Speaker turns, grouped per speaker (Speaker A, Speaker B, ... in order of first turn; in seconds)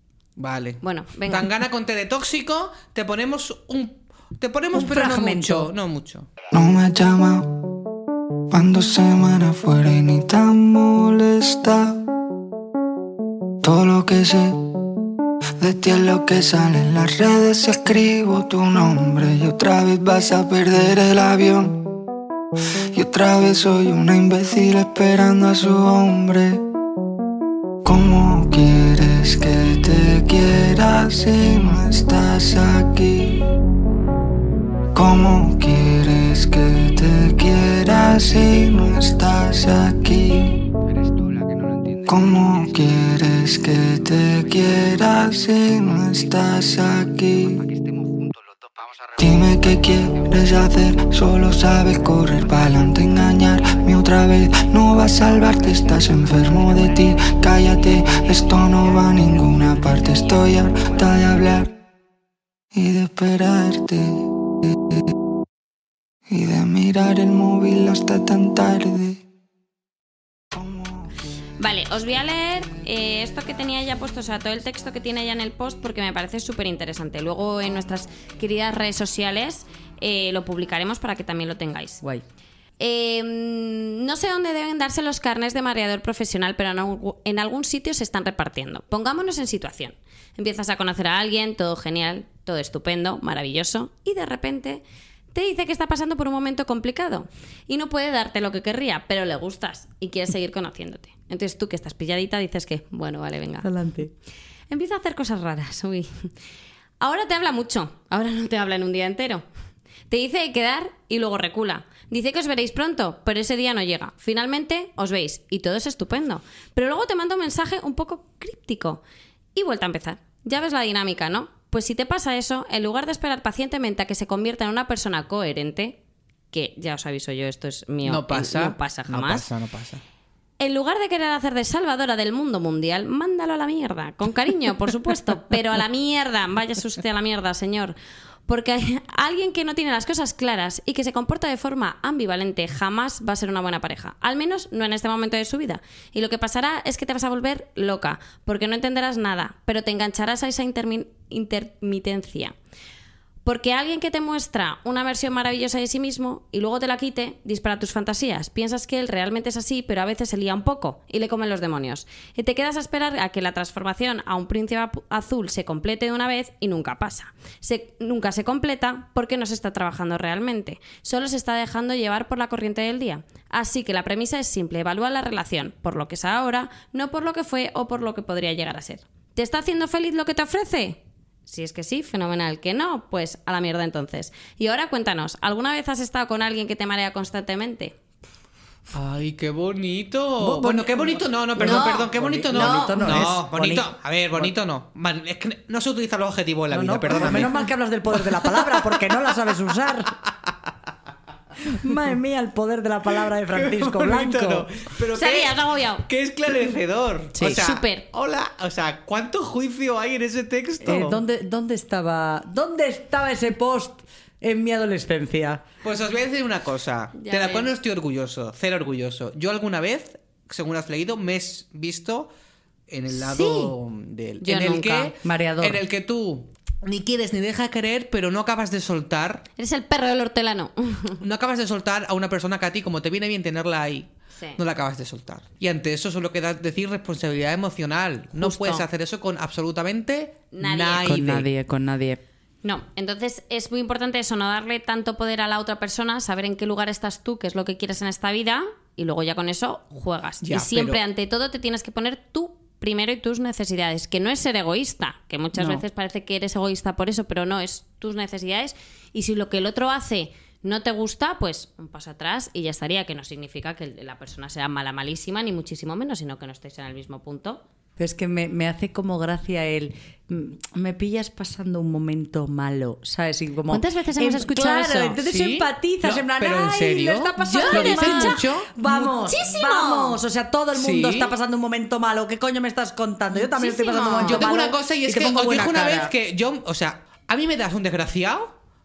Speaker A: 0.4-6.3, 128.0-130.0, 188.9-199.5, 203.5-211.2, 215.8-222.3, 222.9-229.5, 231.2-241.5, 250.4-251.0, 275.2-278.8, 280.7-281.3, 284.2-288.6
Speaker B: 0.8-1.5, 71.6-82.0, 82.8-103.7, 104.7-106.3, 107.0-109.5, 110.1-119.0, 119.5-126.0, 126.5-129.5, 130.6-137.9, 138.5-152.6, 153.4-187.9, 191.6-193.3, 205.1-206.1, 207.4-208.1, 217.2-217.7, 223.1-223.7, 224.4-225.1, 229.6-231.2, 234.3-234.6, 238.4-238.8, 240.5-241.1, 242.6-267.6, 273.7-275.2, 277.4-280.2, 283.3-284.7
Speaker C: 4.7-5.7, 103.6-104.1, 190.4-194.5, 196.7-200.2, 201.7-204.7, 207.4-207.6, 210.8-215.7, 225.2-225.8, 241.0-242.2, 268.0-286.1
Speaker D: 6.5-7.5, 8.5-12.0, 13.6-14.6, 15.6-21.9, 22.9-26.6, 27.8-33.4, 34.9-40.6, 42.0-47.7, 49.2-61.8, 62.7-64.2, 66.3-69.2, 70.5-71.1